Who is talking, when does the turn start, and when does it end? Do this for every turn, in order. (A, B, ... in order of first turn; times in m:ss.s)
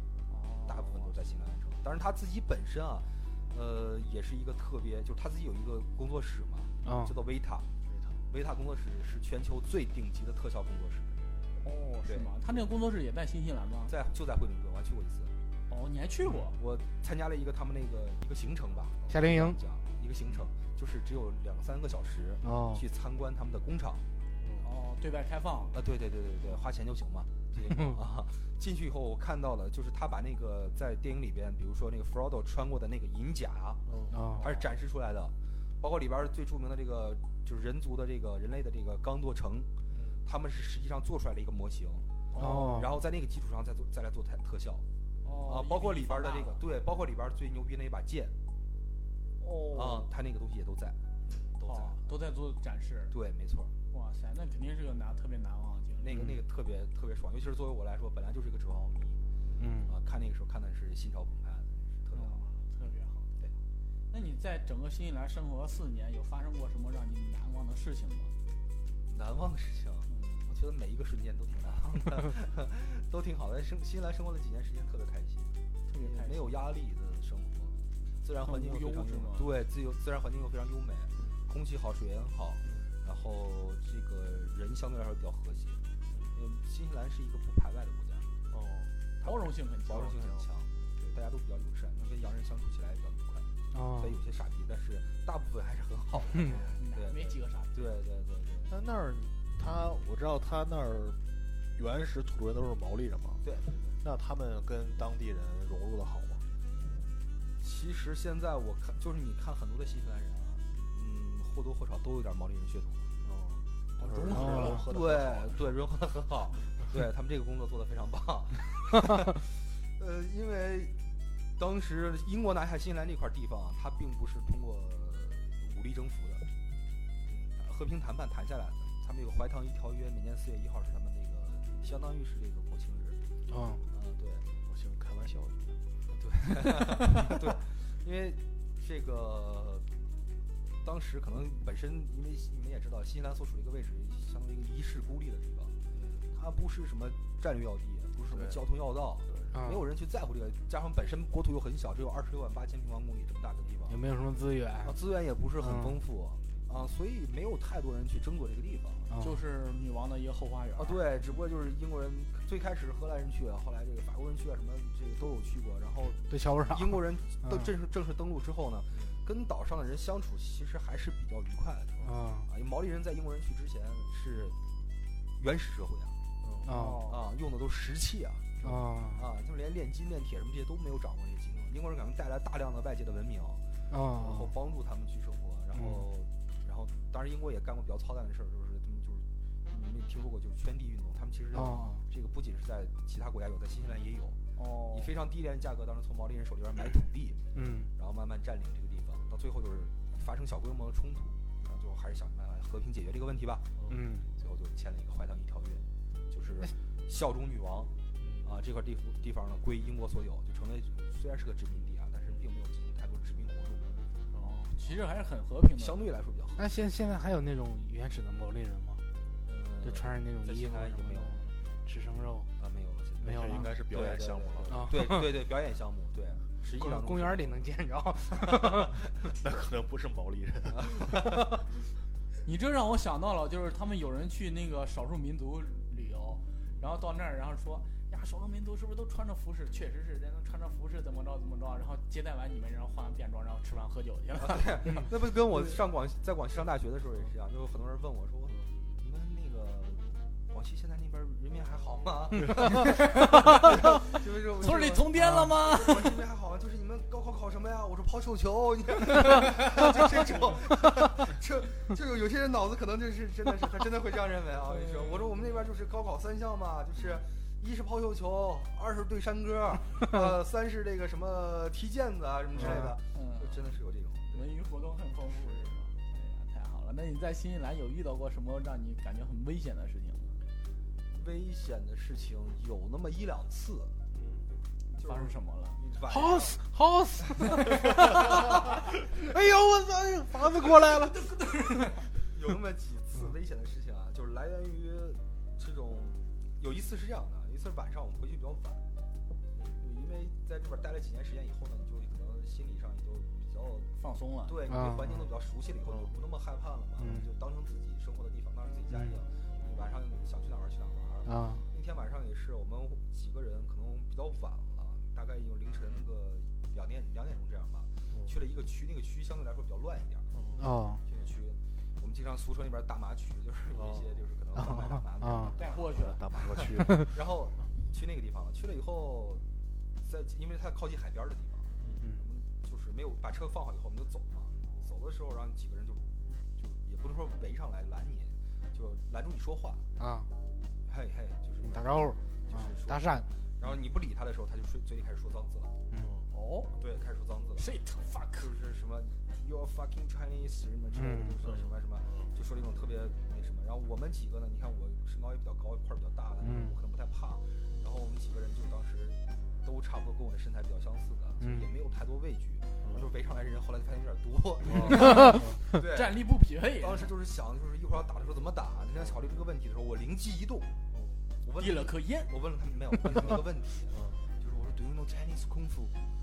0:00.3-0:01.2 A
0:00.7-0:07.7 B
0:06.8-0:07.2 C
0:07.9-0:08.2 D
0:08.3-0:11.2 B
0:11.6-0:14.0 A
0:12.1-0:12.3 B
0:13.9-0:15.3 B
0:15.7-0:16.6 A
0:16.6-0:24.0 B
0:19.1-0:19.6 C
0:22.4-0:22.8 C
0:24.4-0:24.7 D
0:24.6-0:25.8 A
0:25.7-0:33.8 B
0:27.7-0:28.0 C
0:33.9-0:34.2 D
0:34.1-0:34.4 C
0:34.4-0:39.7 B
0:39.9-0:40.2 D
0:40.2-0:44.8 B
0:42.3-0:42.7 A
0:42.4-0:42.9 C
0:45.2-0:46.6 A
0:45.5-0:48.4 B
0:49.4-0:50.1 A
0:49.7-0:51.0 B
0:51.3-0:51.5 D
0:51.6-0:52.1 B
0:51.6-0:53.1 A
0:53.1-0:53.7 B
0:53.9-0:56.2 A
0:56.0-0:59.2 B
0:56.1-0:56.4 C
0:59.6-1:00.0 C
0:59.9-1:02.4 B
1:02.1-1:03.3 A
1:04.1-1:08.3 A
1:09.1-1:25.8 B
1:10.1-1:10.6 A
1:15.9-1:16.6 A
1:18.4-1:19.5 A
1:22.6-1:22.9 D
1:26.1-1:26.4 D
1:26.4-1:28.3 B
1:28.5-1:28.9 D
1:29.2-1:30.3 A
1:29.2-1:38.7 B
1:33.7-1:34.2 C
1:36.3-1:36.6 C
1:36.5-1:36.8 D
1:36.8-1:37.8 A
1:38.7-1:41.2 D
1:41.8-1:43.5 D
1:43.4-1:44.0 B
1:44.0-1:46.4 D
1:47.6-1:53.1 B
1:53.2-1:55.7 D
1:54.0-1:54.8 A
1:54.2-2:00.9 B
1:54.3-1:54.8 C
2:01.6-2:06.4 B
2:07.3-2:13.2 B
2:13.5-2:13.8 C
2:13.9-2:14.5 B
2:14.7-2:15.8 D
2:16.1-2:19.9 B
2:20.8-2:25.8 B
2:25.9-2:26.3 D
2:26.3-2:34.1 B
2:28.3-2:28.7 D
2:29.3-2:29.6 D
2:29.5-2:29.8 C
2:33.9-2:35.0 C
2:34.8-2:39.1 B
2:35.6-2:36.0 C
2:39.1-2:39.4 C
2:39.2-2:41.0 A
2:40.8-2:54.6 B
2:46.3-2:47.7 C
2:52.0-2:52.5 C
2:55.4-2:56.2 B
2:56.4-2:56.8 D
2:56.6-2:57.1 C
2:56.6-2:57.2 A
2:57.1-2:58.6 B
2:58.6-2:59.2 C
2:59.1-3:03.6 B
3:03.9-3:04.5 C
3:04.2-3:14.4 B
3:05.8-3:06.0 C
3:11.5-3:12.0 C
3:14.6-3:15.1 A
3:14.9-3:23.8 B
3:17.6-3:17.9 C
3:23.8-3:24.0 D
3:23.9-3:24.3 C
3:24.4-3:27.9 B
3:28.2-3:28.5 D
3:28.4-3:34.0 B
3:34.3-3:34.7 D
3:34.4-3:36.0 A
3:35.8-3:36.8 B
3:36.6-3:39.0 C
3:39.5-3:41.4 B
3:39.8-3:42.5 C
3:42.6-3:47.7 B
3:43.2-3:45.1 D
3:43.2-3:43.9 C
3:44.7-3:45.3 C
3:46.6-3:49.0 C
3:48.4-3:49.4 B
3:49.4-3:51.4 D
3:50.7-3:51.6 B
3:52.4-4:05.0 A
4:04.4-4:34.5 B
4:12.4-4:12.7 D
4:12.8-4:16.2 A
4:24.7-4:25.3 A
4:33.1-4:33.7 A
4:34.3-4:40.4 A
4:41.1-4:44.0 B
4:44.1-4:44.5 D
4:45.0-4:45.8 A
4:45.0-4:46.6 B
4:46.1-4:51.6 C
4:48.0-4:48.6 B
4:51.4-4:51.9 A
4:52.2-4:58.8 B
4:59.6-4:59.8 D
4:59.8-5:03.9 B
5:04.0-5:04.7 A
5:04.5-5:20.3 B
5:04.7-5:05.2 C
5:05.9-5:06.1 D
5:07.0-5:07.3 C
5:08.9-5:09.2 C
5:11.3-5:11.6 C
5:20.3-5:20.8 D
5:20.6-5:21.0 C
5:21.1-5:29.4 B
5:23.7-5:24.1 D
5:24.6-5:25.6 C
5:25.6-5:26.2 A
5:25.7-5:27.2 D
5:30.0-5:39.8 B
5:31.8-5:32.1 D
5:40.0-5:40.3 C
5:40.9-5:45.7 B
5:41.6-5:43.3 C
5:45.9-5:46.3 D
5:46.3-5:46.7 A
5:46.8-5:47.7 B
5:47.6-5:48.5 A
5:48.4-6:06.2 B
5:51.0-5:51.4 C
5:51.4-5:52.3 D
5:56.4-5:56.8 C
6:01.4-6:01.7 C
6:02.8-6:03.1 D
6:04.6-6:05.6 D
6:04.7-6:07.1 A
6:06.8-6:10.7 B
6:10.9-6:11.2 D
6:11.4-6:16.0 B
6:11.6-6:12.3 A
6:13.9-6:14.2 D